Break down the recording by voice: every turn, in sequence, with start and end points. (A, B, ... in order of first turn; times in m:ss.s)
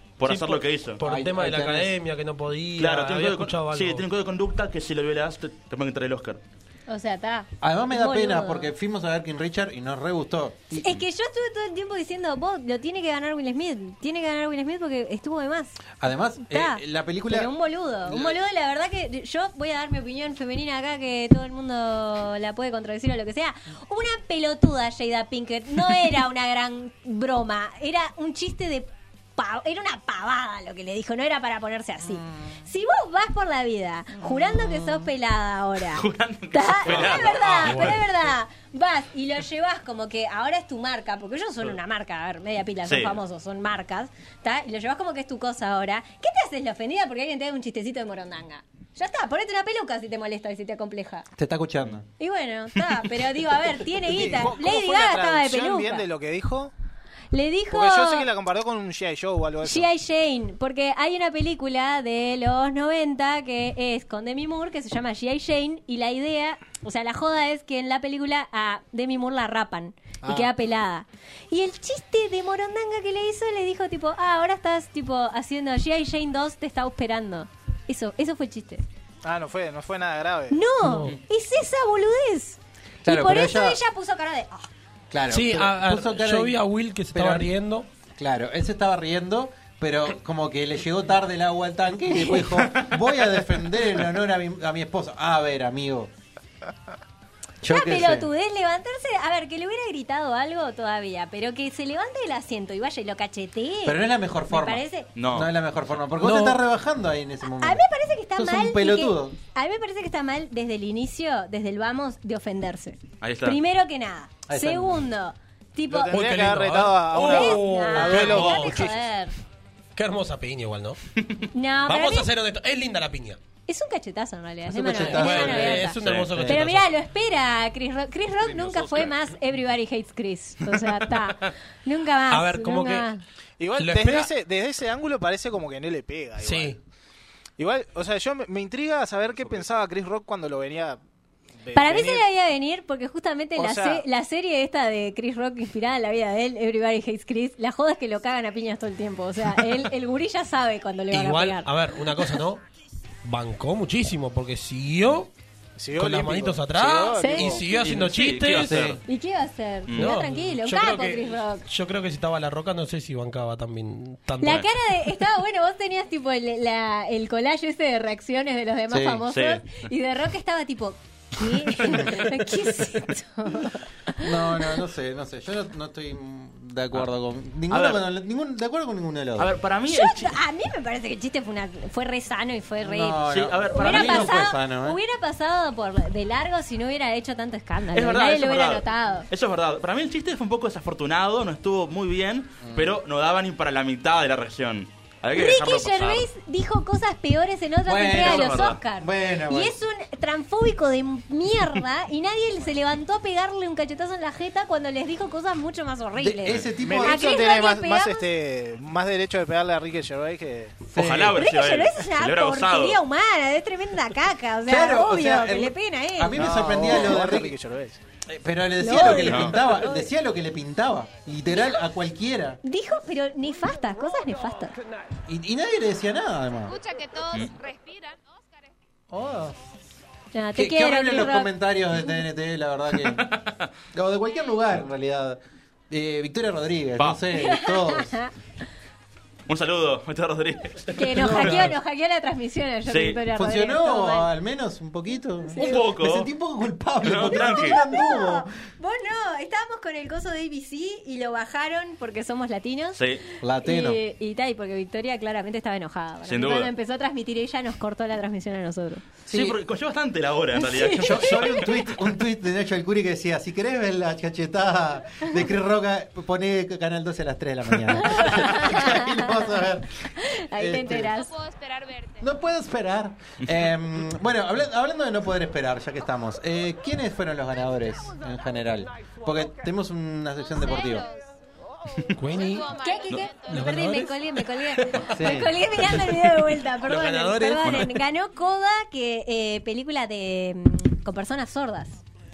0:00.2-0:01.0 A
0:00.3-0:04.0 B
0:01.0-0:01.9 C
0:02.8-0:06.4 A
0:06.9-0:08.7 D
0:07.6-0:11.0 C
0:10.8-0:15.8 D
0:16.0-0:17.5 C
0:16.5-0:51.3 D
0:18.0-0:18.4 C
0:35.9-0:38.0 A
0:37.6-0:38.0 B
0:42.9-0:43.2 A
0:51.4-0:52.1 C
0:52.2-0:56.1 D
0:54.0-0:56.7 E
0:57.3-0:58.3 D
0:57.7-0:59.9 E
0:59.6-1:18.8 D
1:10.2-1:10.5 E
1:19.2-1:20.6 E
1:20.5-1:24.7 D
1:20.8-1:21.2 B
1:23.0-1:23.8 C
1:25.1-1:26.6 C
1:25.3-1:27.9 B
1:27.1-1:27.5 C
1:28.2-1:36.1 C
1:37.6-1:38.3 C
1:37.7-1:45.1 D
1:43.8-1:47.8 C
1:45.2-1:45.5 A
1:46.2-1:46.6 B
1:47.5-1:56.3 D
1:48.4-1:49.4 C
1:53.2-1:53.6 A
1:54.5-1:55.1 C
1:55.9-1:59.0 E
1:56.1-1:59.0 B
1:57.1-1:59.3 D
2:00.0-2:01.0 B
2:01.5-2:02.3 D
2:01.9-2:03.4 B
2:03.7-2:13.2 D
2:04.7-2:06.5 C
2:04.8-2:06.9 B
2:06.0-2:06.4 A
2:12.3-2:13.1 B
2:13.6-2:16.8 E
2:13.8-2:14.3 B
2:16.4-2:16.8 B
2:17.6-2:21.0 E
2:21.6-2:22.2 E
2:21.7-2:31.7 D
2:23.6-2:24.1 E
2:31.1-2:32.6 B
2:33.2-2:35.3 B
2:35.8-2:37.7 E
2:36.0-2:38.9 B
2:37.2-2:37.6 D
2:37.6-2:39.0 A
2:38.6-2:39.0 C
2:39.1-2:41.6 D
2:39.9-2:40.1 A
2:40.0-2:44.6 B
2:44.4-2:54.8 D
2:48.9-2:49.2 C
2:49.3-2:49.9 A
2:54.2-2:59.5 C
2:57.7-2:58.0 A
2:59.4-3:00.4 A
2:59.9-3:09.3 D
3:02.8-3:05.0 C
3:03.3-3:04.4 A
3:07.9-3:16.3 A
3:12.6-3:13.0 C
3:15.3-3:28.3 D
3:17.9-3:19.8 C
3:18.1-3:18.8 A
3:26.2-3:27.4 C
3:26.8-3:30.8 E
3:30.9-3:31.4 C
3:31.0-3:33.0 A
3:31.3-3:36.6 D
3:34.7-3:37.6 C
3:36.4-3:38.0 E
3:38.3-3:42.6 C
3:38.8-3:40.0 D
3:39.2-3:39.5 A
3:42.6-3:44.8 D
3:45.3-3:46.8 C
3:46.7-3:48.4 F
3:49.1-3:49.6 C
3:50.3-3:51.5 D
3:50.6-3:53.3 C
3:53.1-3:53.7 A
3:53.9-3:58.2 C
3:57.4-3:58.3 D
3:59.5-4:01.0 A
4:00.9-4:04.3 D
4:01.1-4:01.7 C
4:02.9-4:03.2 A
4:03.3-4:08.5 C
4:05.5-4:05.8 D
4:05.6-4:06.3 A
4:07.0-4:07.8 A
4:07.3-4:13.0 D
4:13.0-4:13.2 A
4:13.4-4:14.0 C
4:13.6-4:19.1 D
4:16.3-4:16.7 A
4:19.3-4:19.6 C
4:19.3-4:21.8 A
4:20.6-4:21.6 D
4:20.9-4:29.9 C
4:28.0-4:29.5 D
4:30.2-4:31.4 D
4:30.6-4:31.2 C
4:31.2-4:32.2 F
4:32.2-4:41.1 C
4:40.6-4:41.2 F
4:42.2-4:42.7 B
4:42.3-4:43.5 F
4:42.6-4:52.0 D
4:43.5-4:45.1 B
4:45.2-4:45.6 C
4:45.8-4:46.2 B
4:46.8-4:48.0 B